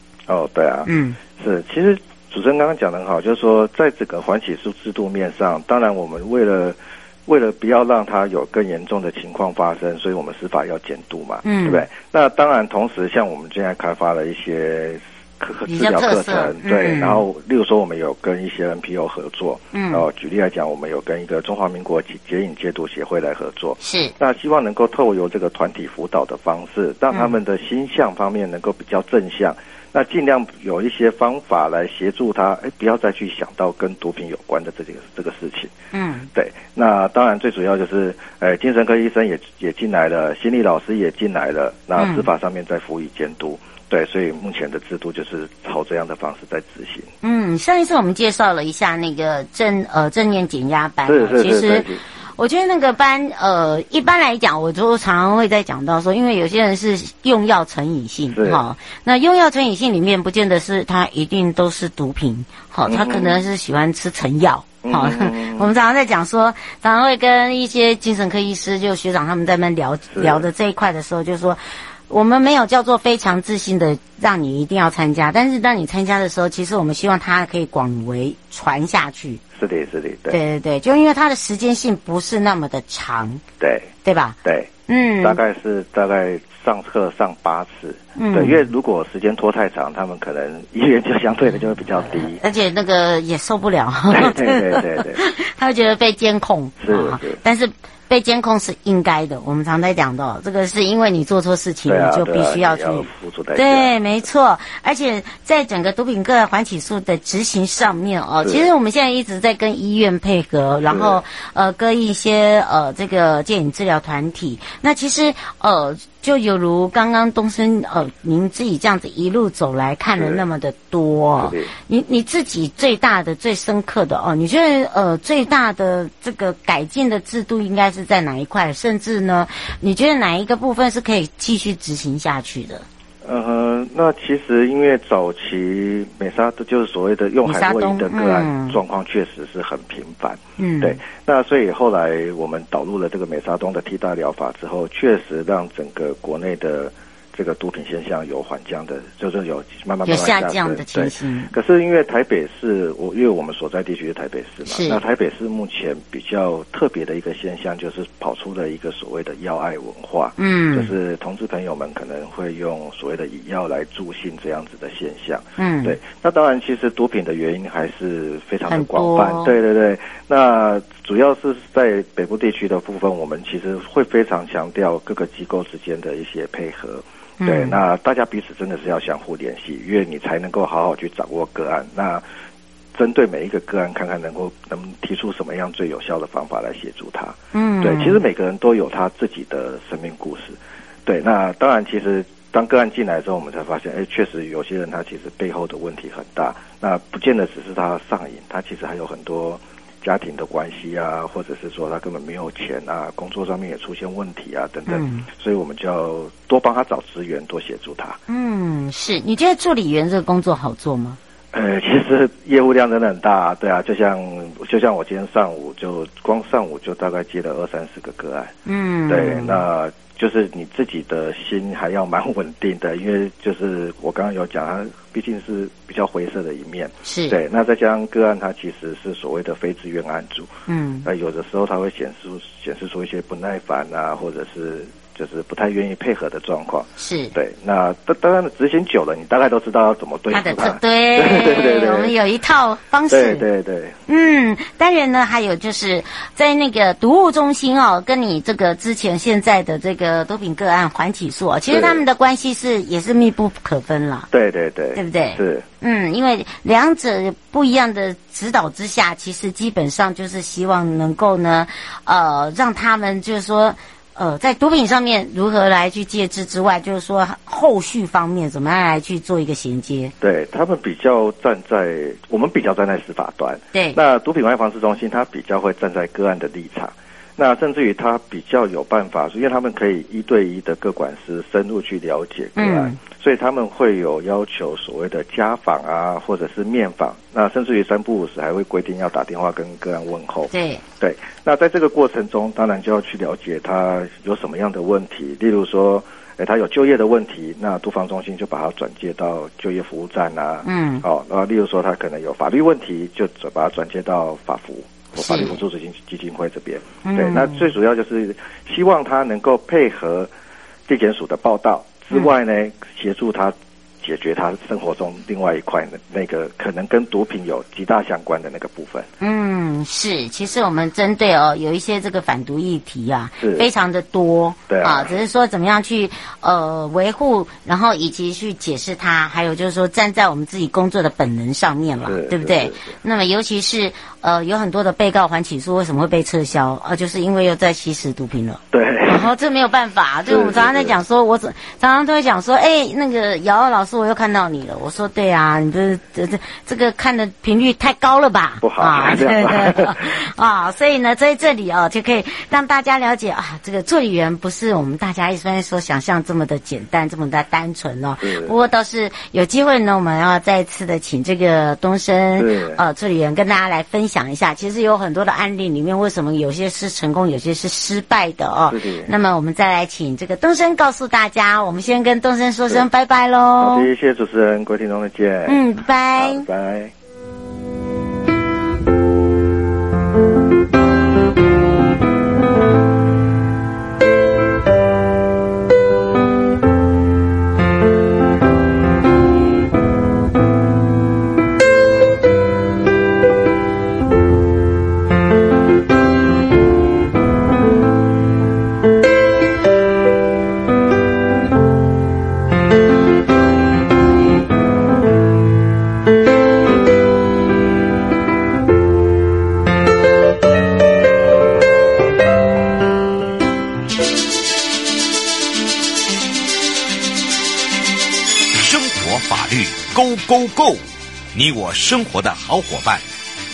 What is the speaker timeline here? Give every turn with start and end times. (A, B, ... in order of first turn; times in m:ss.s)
0:00.3-0:35.7 A
0:00.9-0:01.2 B
0:11.4-0:11.8 B
0:15.7-0:17.2 B
0:19.7-0:20.0 B
0:23.8-0:24.1 B
0:35.9-0:36.3 B
0:36.3-0:47.1 A
0:42.0-0:42.3 B
0:47.2-1:19.4 B
0:51.0-0:52.0 A
0:58.3-0:58.6 A
1:02.9-1:03.4 A
1:04.8-1:05.7 A
1:10.1-1:10.5 A
1:19.6-1:20.4 A
1:20.3-1:23.4 B
1:23.6-1:23.9 A
1:24.0-1:24.4 B
1:24.4-1:24.7 A
1:24.9-1:25.4 B
1:25.2-1:32.4 A
1:28.2-1:28.6 B
1:32.2-2:12.8 B
1:34.1-1:35.2 A
1:36.8-1:37.4 A
1:41.9-1:43.9 A
1:48.4-1:48.7 A
1:50.9-1:51.2 A
2:00.2-2:00.4 A
2:01.4-2:01.7 A
2:13.2-3:02.2 A
2:17.4-2:18.8 B
2:20.6-2:21.0 B
2:30.1-2:31.5 B
2:34.7-2:35.0 B
2:40.4-2:40.9 B
2:45.6-2:46.0 B
2:48.7-2:49.5 B
2:57.4-2:57.8 B
3:02.9-3:28.2 A
3:07.5-3:08.2 B
3:24.9-3:25.3 B
3:28.3-3:31.2 B
3:31.5-3:38.5 A
3:38.7-3:39.6 B
3:39.1-3:50.5 A
3:47.1-3:47.4 B
3:50.7-3:51.1 B
3:51.0-4:02.1 A
3:57.0-3:57.3 B
4:00.3-4:03.4 B
4:03.1-4:04.0 A
4:04.1-4:14.3 B
4:11.7-4:12.0 A
4:14.3-4:15.6 A
4:15.0-4:30.1 B
4:30.2-5:10.3 A
4:42.6-4:43.0 B
4:50.5-4:50.8 B
5:00.6-5:01.0 B
5:05.2-5:05.6 B
5:07.0-5:07.6 B
5:10.9-5:19.1 A
5:19.2-6:13.9 B
5:23.4-5:23.7 A
5:24.7-5:25.2 A
5:32.0-5:32.9 A
5:38.7-5:39.3 A
5:40.2-5:41.0 A
5:48.6-5:50.2 A
5:58.2-5:58.5 A
6:02.4-6:02.8 A
6:08.7-6:09.1 A
6:13.6-6:15.6 A
6:15.5-6:16.4 B
6:16.2-6:16.9 A
6:58.5-7:03.0 C